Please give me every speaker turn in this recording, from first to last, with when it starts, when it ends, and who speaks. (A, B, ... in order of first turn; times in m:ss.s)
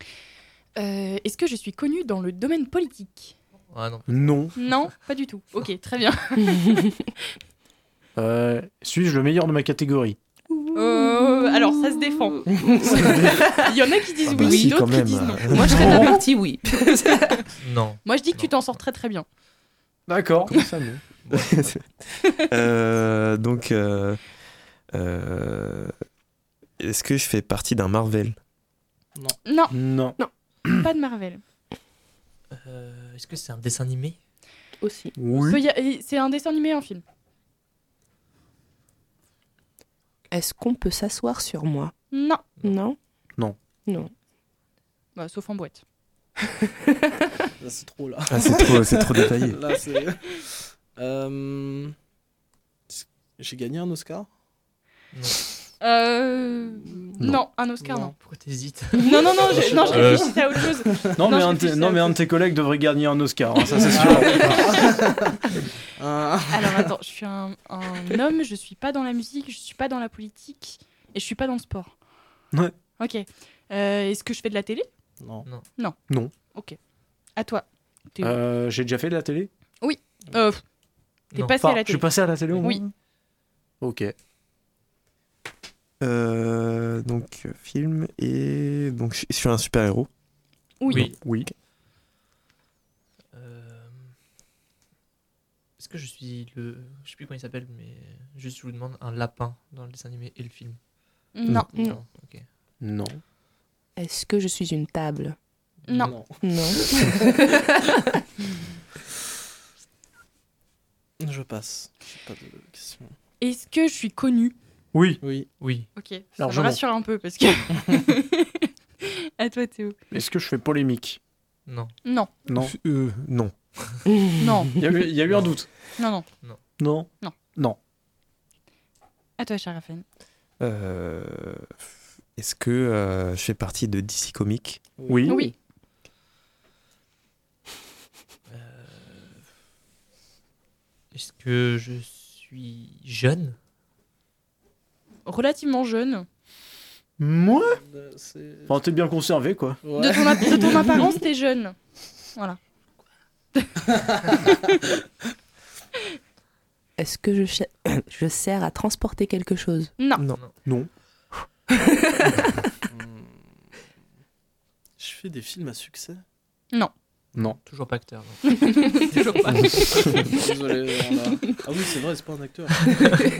0:00.8-0:03.3 A
0:03.7-0:04.8 B
0:04.1-0:04.5 C
0:04.6-0:07.0 A
0:08.2-0:10.2 C
0:10.5-0:13.7 D
0:10.7-0:12.4 A
0:12.9-0:16.0 A
0:14.3-0:16.1 E
0:14.4-0:14.8 D
0:15.5-0:17.4 D
0:15.7-0:16.3 C
0:17.6-0:18.8 B
0:18.0-0:19.2 A
0:20.1-0:21.0 C
0:21.2-0:21.8 B
0:21.3-0:25.9 E
0:26.8-0:28.4 E
0:29.4-0:29.7 A
0:29.7-0:30.8 C
0:30.8-0:31.4 A
0:32.5-0:34.2 B
0:34.8-0:35.1 D
0:35.2-0:35.6 C
0:35.5-0:37.0 A
0:40.3-0:41.9 D
0:42.1-0:42.4 A
0:42.6-0:43.0 D
0:43.8-0:44.1 D
0:45.2-0:45.8 A
0:47.6-0:52.0 F
0:48.3-0:49.6 E
0:52.9-0:54.3 F
0:55.1-0:55.4 B
0:55.8-0:58.1 A
0:56.9-0:58.1 F
0:58.2-1:00.4 B
0:59.0-1:02.2 A
0:59.5-1:01.2 F
1:01.2-1:04.7 C
1:03.7-1:05.4 F
1:03.9-1:04.7 A
1:06.0-1:06.9 F
1:06.5-1:11.9 A
1:13.0-1:14.9 A
1:15.2-1:15.4 F
1:16.1-1:16.3 C
1:16.5-1:16.8 A
1:17.4-1:18.4 A
1:18.2-1:19.5 C
1:19.8-1:20.6 A
1:21.3-1:21.6 B
1:21.3-1:22.8 A
1:21.6-1:22.9 C
1:23.8-1:24.1 C
1:26.0-1:30.1 E
1:30.8-1:31.1 A
1:30.9-1:31.2 B
1:30.9-1:31.5 C
1:33.3-1:34.1 B
1:35.8-1:40.8 B
1:41.3-1:41.7 A
1:41.7-1:42.0 D
1:41.7-1:42.4 B
1:42.8-1:43.2 C
1:44.0-1:45.4 D
1:45.9-1:46.2 B
1:45.9-1:46.1 A
1:46.0-1:47.1 F
1:46.4-1:47.6 D
1:51.2-1:53.1 F
1:53.4-1:54.5 A
1:54.9-1:55.2 C
1:55.2-1:55.5 F
1:55.6-1:55.9 B
1:56.0-2:00.0 A
1:56.4-1:56.8 C
2:00.1-2:01.2 C
2:01.7-2:01.9 B
2:02.0-2:02.3 A
2:02.4-2:03.2 C
2:02.6-2:03.5 E
2:04.4-2:04.7 A
2:04.8-2:05.7 C
2:05.3-2:05.6 B
2:06.0-2:06.3 A
2:06.8-2:07.8 C
2:09.4-2:10.0 A
2:10.6-2:11.7 E
2:12.4-2:14.8 E
2:15.0-2:15.3 F
2:15.1-2:15.4 C
2:15.3-2:15.5 A
2:18.5-2:19.4 B
2:21.1-2:23.6 B
2:25.2-2:26.3 A
2:27.2-2:27.8 C
2:27.8-2:28.8 F
2:28.7-2:29.8 C
2:29.8-2:30.9 F
2:30.0-2:31.8 A
2:37.0-2:39.9 D
2:40.6-2:40.9 C
2:42.9-2:43.6 F
2:45.0-2:46.2 F
2:47.4-2:50.0 B
2:48.5-2:50.0 A
2:50.3-2:52.9 F